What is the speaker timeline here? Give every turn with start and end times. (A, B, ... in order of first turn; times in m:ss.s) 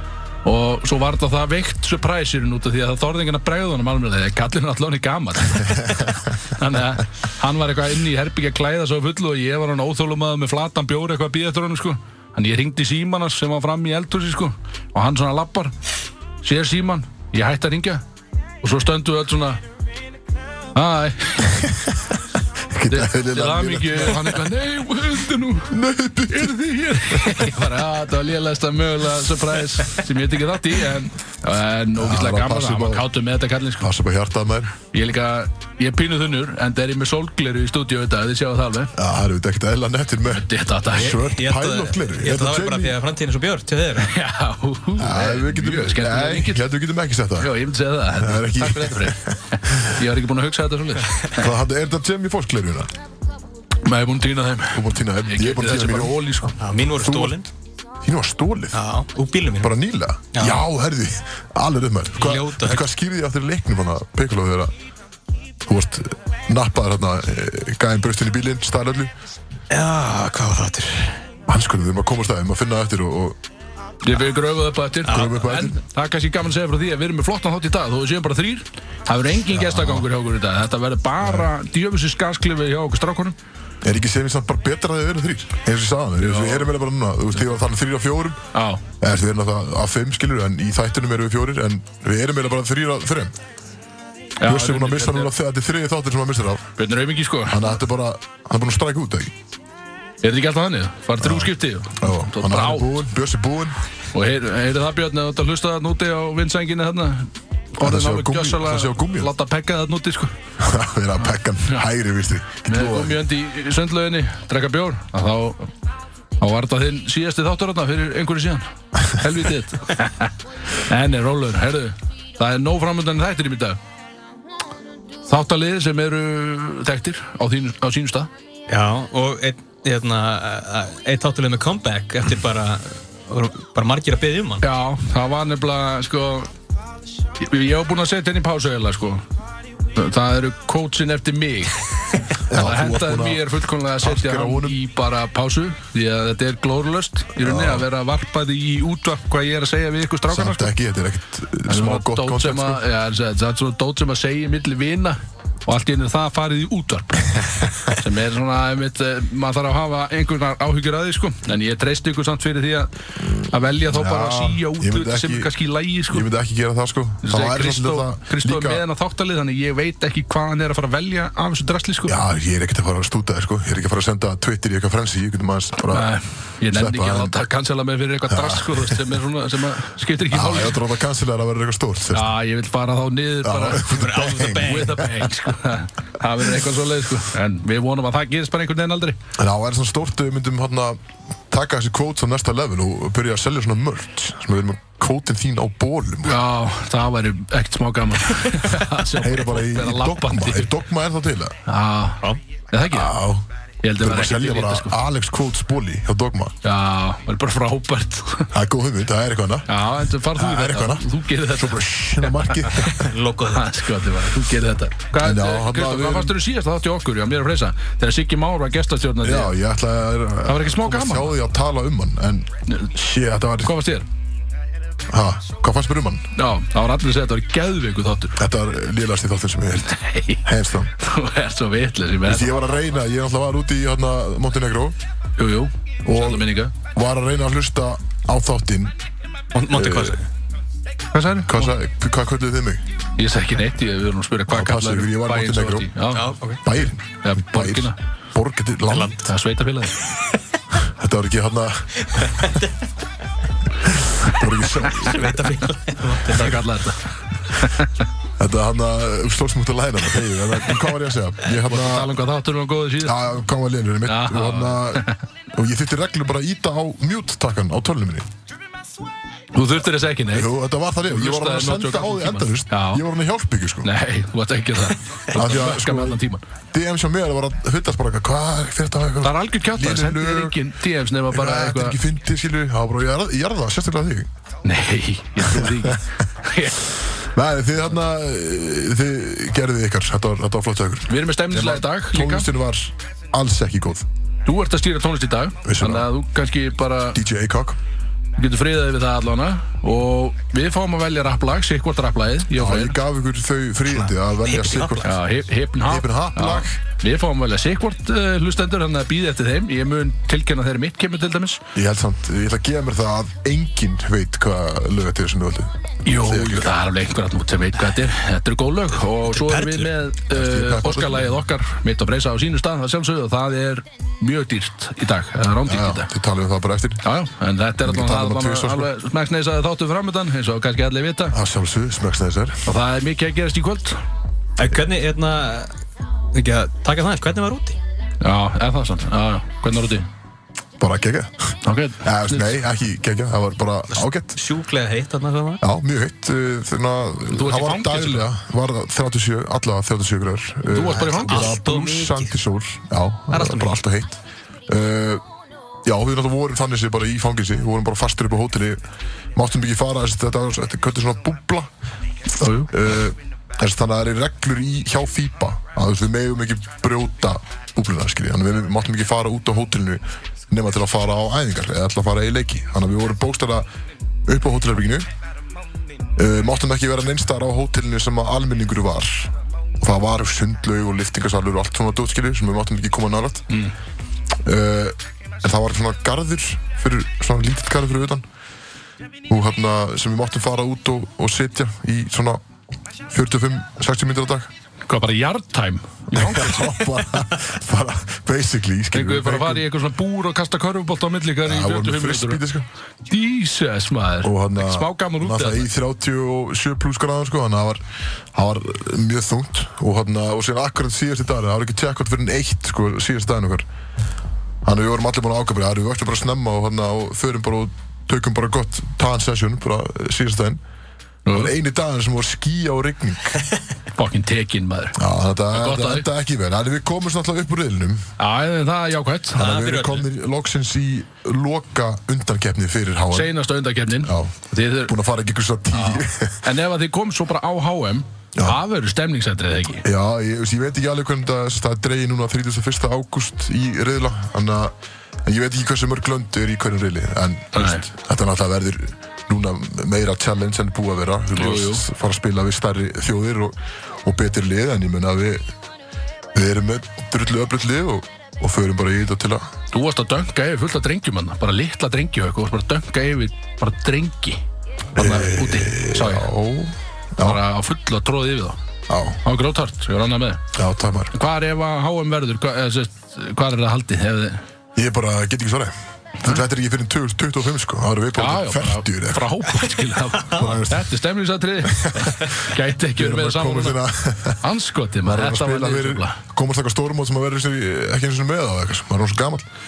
0:00.4-0:15.7 A
0:16.4-0:18.0 A
0:18.6-0:19.6 A
0:20.7-0:21.7 A
0:22.7-0:24.4 B
0:22.9-0:25.8 A
0:25.7-0:27.5 B
0:26.3-0:33.9 A
0:31.9-0:33.0 B
0:33.8-0:34.8 B
0:34.9-0:38.9 A
0:38.9-0:43.0 B
0:40.3-0:41.2 A
0:40.9-0:44.1 C
0:44.0-0:46.6 A
0:45.0-0:47.5 B
0:47.4-0:51.5 A
0:48.1-0:50.0 B
0:51.3-0:52.9 B
0:53.8-0:56.6 A
0:54.7-0:56.2 B
0:56.6-0:57.5 C
0:57.0-0:57.4 B
0:58.0-0:58.8 B
0:58.7-0:59.7 C
0:59.6-1:04.7 B
1:00.3-1:00.6 C
1:02.2-1:02.8 C
1:05.6-1:09.1 B
1:09.7-1:11.2 C
1:11.5-1:13.4 B
1:14.0-1:23.4 A
1:15.1-1:15.8 B
1:19.5-1:20.0 B
1:23.8-1:28.4 B
1:26.2-1:26.7 A
1:28.5-1:28.8 A
1:29.0-1:33.3 B
1:34.4-1:35.3 A
1:34.4-1:36.7 B
1:36.8-1:37.7 A
1:37.5-1:39.3 B
1:40.2-1:43.0 A
1:41.2-1:43.8 B
1:44.1-1:50.3 A
1:47.8-1:49.3 B
1:50.6-1:53.2 B
1:51.6-1:51.9 A
1:52.6-1:55.7 A
1:56.4-2:03.8 A
2:05.3-2:08.3 A
2:08.7-2:14.6 C
2:14.6-2:16.5 A
2:17.4-2:19.2 A
2:19.9-2:30.7 A
2:22.5-2:23.4 B
2:24.0-2:24.8 B
2:27.4-2:27.9 B
2:30.3-2:32.8 B
2:31.7-2:46.3 A
2:43.9-2:45.5 B
2:46.1-2:48.8 B
2:47.2-2:52.2 A
2:52.1-2:56.1 B
2:55.8-3:00.8 A
2:56.7-2:57.4 B
2:58.3-2:59.0 B
3:00.3-3:02.3 B
3:02.1-3:09.2 A
3:03.4-3:05.3 B
3:03.8-3:05.0 C
3:09.4-3:16.4 B
3:16.2-3:20.7 A
3:19.1-3:21.6 B
3:21.6-3:23.2 A
3:22.9-3:23.4 B
3:23.8-3:25.0 A
3:24.0-3:26.5 B
3:26.6-3:28.5 A
3:28.5-3:29.7 B
3:29.7-3:32.9 A
3:30.3-3:33.1 B
3:32.8-3:33.7 C
3:33.4-3:39.6 A
3:35.2-3:36.4 B
3:39.2-3:43.8 B
3:40.4-3:41.3 A
3:42.7-3:42.9 A
3:43.6-3:44.1 A
3:45.1-3:46.3 B
3:46.3-3:48.4 A
3:48.4-3:50.9 B
3:49.9-3:50.4 A
3:51.0-3:52.6 A
3:52.2-3:55.0 B
3:55.4-3:56.7 A
3:56.0-3:58.9 B
3:59.5-4:00.2 C
3:59.7-4:00.2 B
4:01.1-4:01.7 A
4:01.4-4:02.8 B
4:03.2-4:08.0 A
4:04.5-4:05.9 B
4:06.1-4:06.6 C
4:06.6-4:09.2 B
4:08.9-4:09.3 C
4:09.2-4:09.9 A
4:10.7-4:12.6 B
4:12.1-4:12.7 C
4:13.8-4:15.5 B
4:14.6-4:16.6 C
4:16.3-4:18.0 A
4:18.4-4:22.1 B
4:21.5-4:23.2 A
4:23.0-4:28.3 B
4:24.0-4:25.2 A
4:29.5-4:30.5 A
4:30.3-4:33.9 B
4:31.0-4:33.0 A
4:33.8-4:36.4 A
4:35.3-4:36.2 B
4:36.7-4:40.6 B
4:39.2-4:42.0 A
4:41.3-4:44.3 B
4:44.6-4:46.9 A
4:45.4-4:46.0 B
4:47.2-4:54.0 B
4:51.1-4:52.5 A
4:54.4-4:57.2 A
4:55.6-4:56.1 B
4:57.1-4:57.8 B
4:58.4-5:03.0 A
5:02.5-5:05.1 B
5:04.4-5:05.2 C
5:05.0-5:11.6 A
5:05.8-5:06.8 B
5:11.7-5:16.7 B
5:16.0-5:26.1 A
5:19.3-5:19.9 C
5:20.3-5:21.3 B
5:25.6-5:27.0 B
5:27.0-5:31.3 A
5:27.8-5:28.9 B
5:31.3-5:32.7 B
5:32.6-5:34.0 A
5:34.6-5:35.7 C
5:36.3-5:37.8 C
5:38.2-5:40.1 A
5:40.8-5:44.4 B
5:41.6-5:42.6 A
5:43.9-5:45.6 C
5:45.6-5:55.2 B
5:47.3-5:48.3 A
5:50.6-5:51.6 A
5:50.8-5:52.3 C
5:53.3-5:53.8 C
5:55.8-5:58.8 B
5:59.3-6:01.7 B
6:02.4-6:02.7 A
6:02.7-6:13.6 B
6:14.3-6:15.1 B
6:16.2-6:23.6 B
6:24.4-6:28.2 B
6:29.3-6:32.4 B
6:33.1-6:34.5 B
6:34.8-6:36.8 A
6:36.1-6:39.6 B
6:38.9-6:42.4 A
6:41.4-6:42.7 B
6:43.1-6:45.7 A
6:44.2-6:47.8 B
6:48.3-6:53.6 B
6:54.6-7:00.6 B
7:01.2-7:01.5 A
7:01.3-7:03.4 B
7:03.9-7:05.0 A
7:04.9-7:08.1 B
7:05.5-7:06.1 A
7:08.2-7:09.5 A
7:09.3-7:10.0 C
7:09.4-7:13.3 B
7:13.1-7:14.9 A
7:14.0-7:16.4 B
7:15.7-7:19.8 A
7:19.8-7:24.7 B
7:25.2-7:35.4 B
7:27.5-7:27.8 A
7:31.3-7:31.8 A
7:36.3-7:39.5 B
7:39.7-7:44.4 A
7:44.9-7:46.3 A
7:45.0-7:47.4 B
7:47.2-7:48.6 A
7:48.9-7:49.2 B
7:49.2-7:50.5 A
7:50.5-7:51.1 B
7:51.1-7:54.4 A
7:54.8-7:59.3 B
7:58.1-8:03.8 A
8:00.3-8:00.9 B
8:01.7-8:04.4 B
8:04.4-8:06.2 A
8:05.0-8:09.4 B